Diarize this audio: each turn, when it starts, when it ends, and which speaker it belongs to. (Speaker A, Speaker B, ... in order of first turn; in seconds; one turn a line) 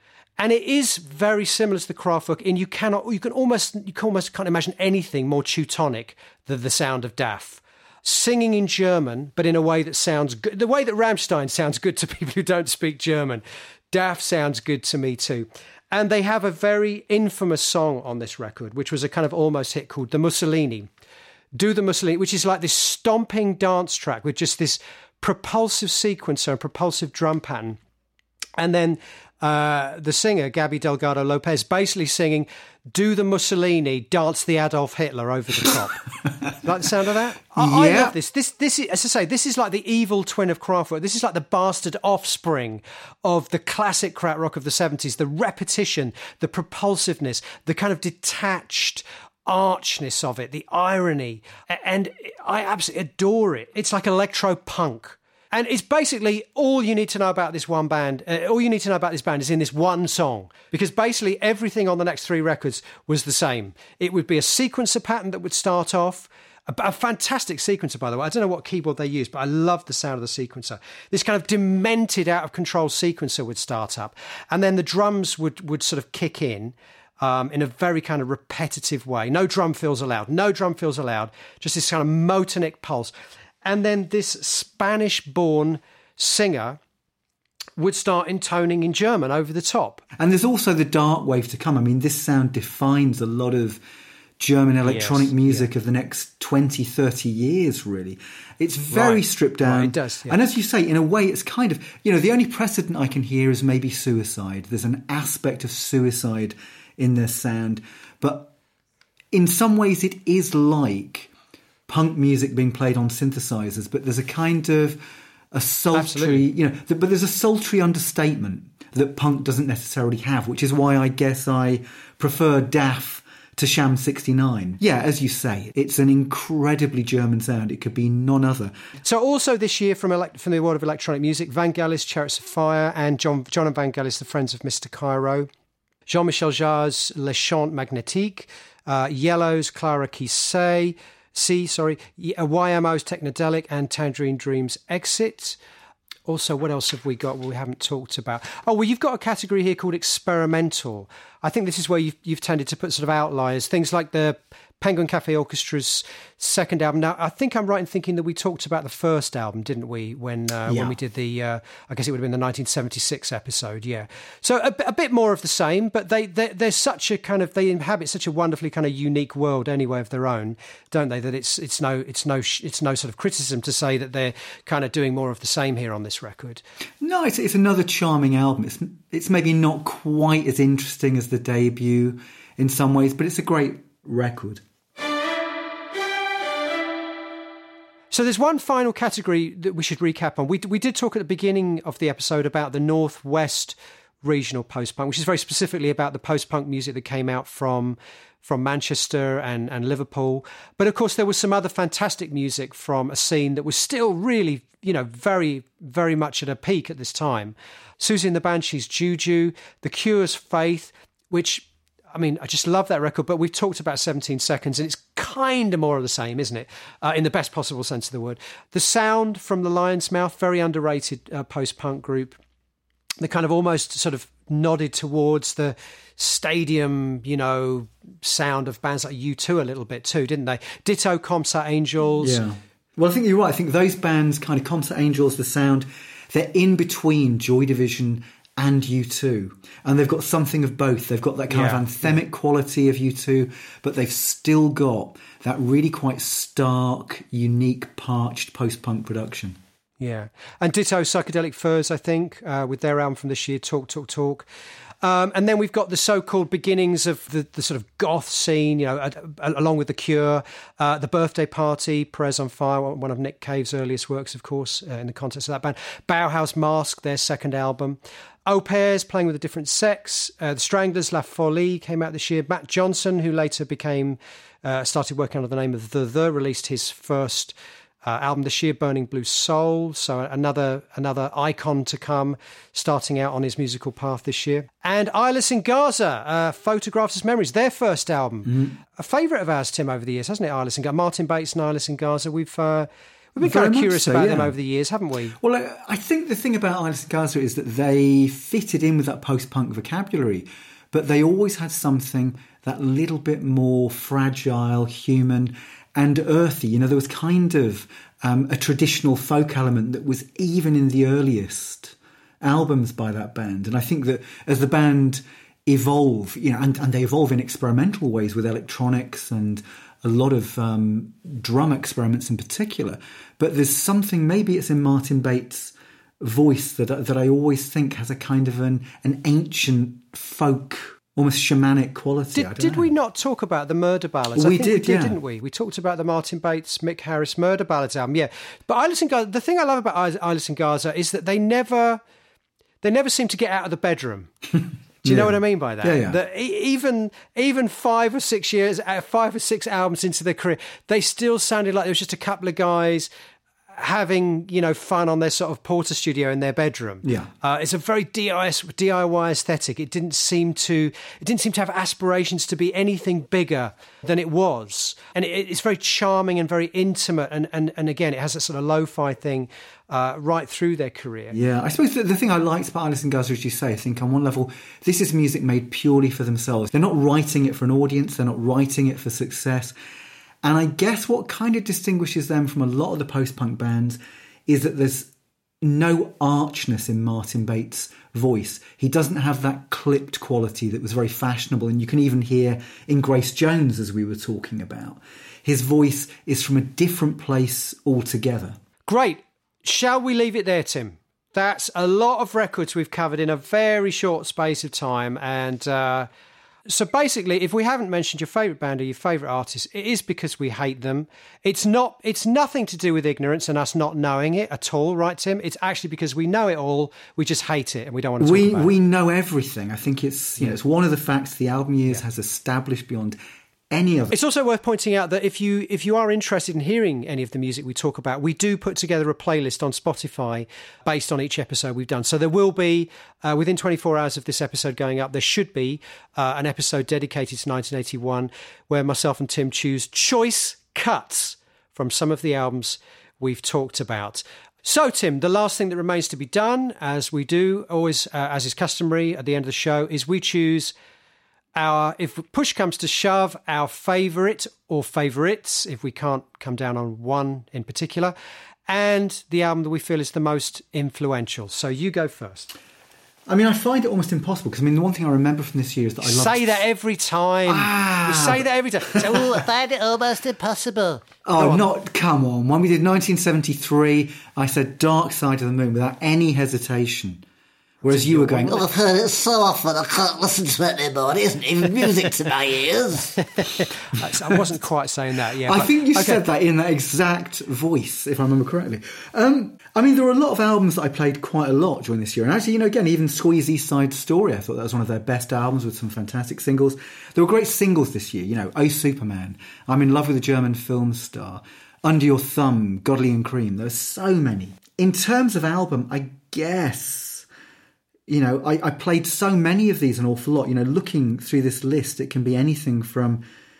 Speaker A: 0.4-20.9
Speaker A: 21.5-27.8
Speaker A: 28.6-83.1
Speaker B: 37.5-38.1
Speaker A: 83.6-86.8
Speaker A: 87.8-90.0
Speaker B: 90.2-93.8
Speaker B: 94.4-108.5
Speaker A: 94.8-95.7
Speaker A: 98.9-100.4
Speaker B: 109.3-111.3
Speaker B: 111.9-128.7
Speaker A: 115.9-116.5
Speaker A: 129.0-135.5
Speaker A: 136.1-145.6
Speaker A: 146.3-176.6
Speaker B: 160.7-160.9
Speaker B: 177.0-184.6
Speaker A: 188.1-222.4
Speaker A: 223.2-232.4
Speaker B: 232.2-249.6
Speaker A: 241.5-242.2
Speaker A: 250.0-254.4
Speaker A: 255.0-295.4
Speaker B: 288.4-288.7
Speaker B: 293.4-294.6
Speaker B: 295.4-332.9
Speaker A: 332.3-342.0
Speaker B: 334.4-335.2
Speaker A: 342.8-344.3
Speaker A: 345.0-353.1
Speaker B: 345.0-346.2
Speaker A: 353.7-371.4
Speaker B: 357.0-357.3
Speaker B: 371.3-379.7
Speaker B: 380.4-398.6
Speaker A: 398.9-406.1
Speaker A: 406.7-418.7
Speaker B: 418.2-423.2
Speaker B: 423.7-424.1
Speaker A: 424.1-450.7
Speaker A: 451.6-458.1
Speaker A: 458.7-462.5
Speaker B: 463.3-466.6
Speaker A: 466.0-469.5
Speaker B: 467.4-468.4
Speaker C: 469.0-471.0
Speaker B: 471.2-477.2
Speaker A: 471.4-471.6
Speaker A: 477.8-478.6
Speaker B: 477.8-478.7
Speaker C: 478.5-483.2
Speaker A: 483.3-486.2
Speaker B: 485.4-507.3
Speaker B: 508.1-513.2